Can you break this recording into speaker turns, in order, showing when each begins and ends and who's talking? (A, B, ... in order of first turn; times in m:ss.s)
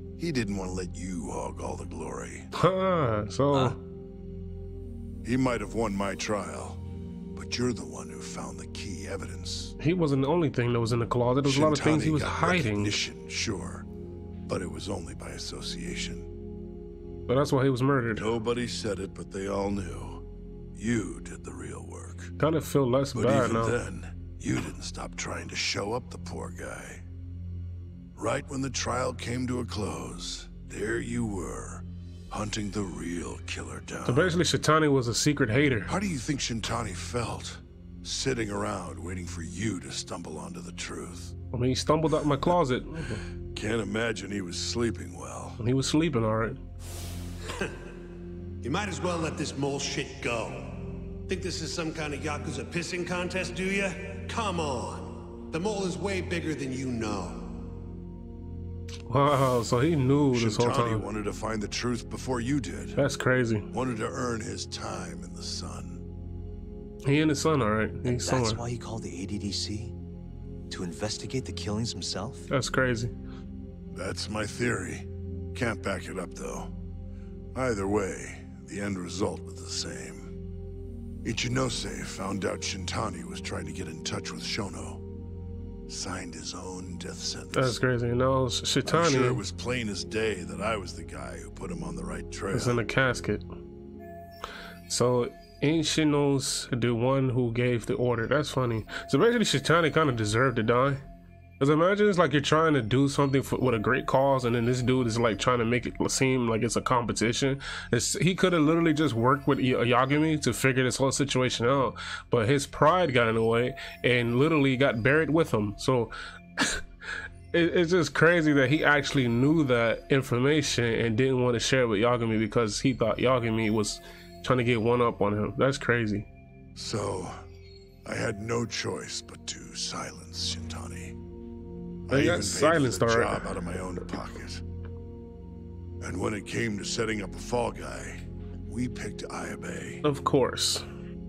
0:00.2-0:02.5 A
0:02.5-0:03.8 B
0:05.2-0:06.8 A
0:07.3-0:09.7 A
0:09.8-0:13.0 B
0:11.4-0:13.9 A
0:14.5-0:16.3 A
0:17.3-0:18.3 B
0:18.1-0:20.2 A
0:20.8-0:22.3 A
0:22.4-0:23.8 B
0:23.1-0:27.0 A
0:28.2-0:34.4 A
0:34.0-0:35.9 B
0:35.9-0:41.3 A
0:41.5-0:43.2 B
0:43.5-0:45.6 A
0:45.6-0:46.6 B
0:48.6-0:57.6 C
0:59.1-1:01.0 B
1:00.3-1:03.0 A
1:03.0-1:03.7 B
1:03.7-1:06.0 A
1:07.0-1:08.6 B
1:08.0-1:09.9 D
1:10.7-1:12.5 D
1:12.5-1:13.1 B
1:13.9-1:16.7 A
1:17.5-1:20.3 A
1:21.2-1:25.0 A
1:25.9-1:27.8 A
1:27.5-1:29.4 B
1:28.8-1:32.8 A
1:32.5-1:33.4 B
1:34.9-1:41.0 B
1:41.6-1:56.8 B
1:57.5-2:06.3 B
2:06.8-2:07.4 A
2:08.0-2:11.2 A
2:12.1-2:14.6 A
2:12.1-2:13.5 B
2:16.0-2:20.0 A
2:20.0-2:20.8 B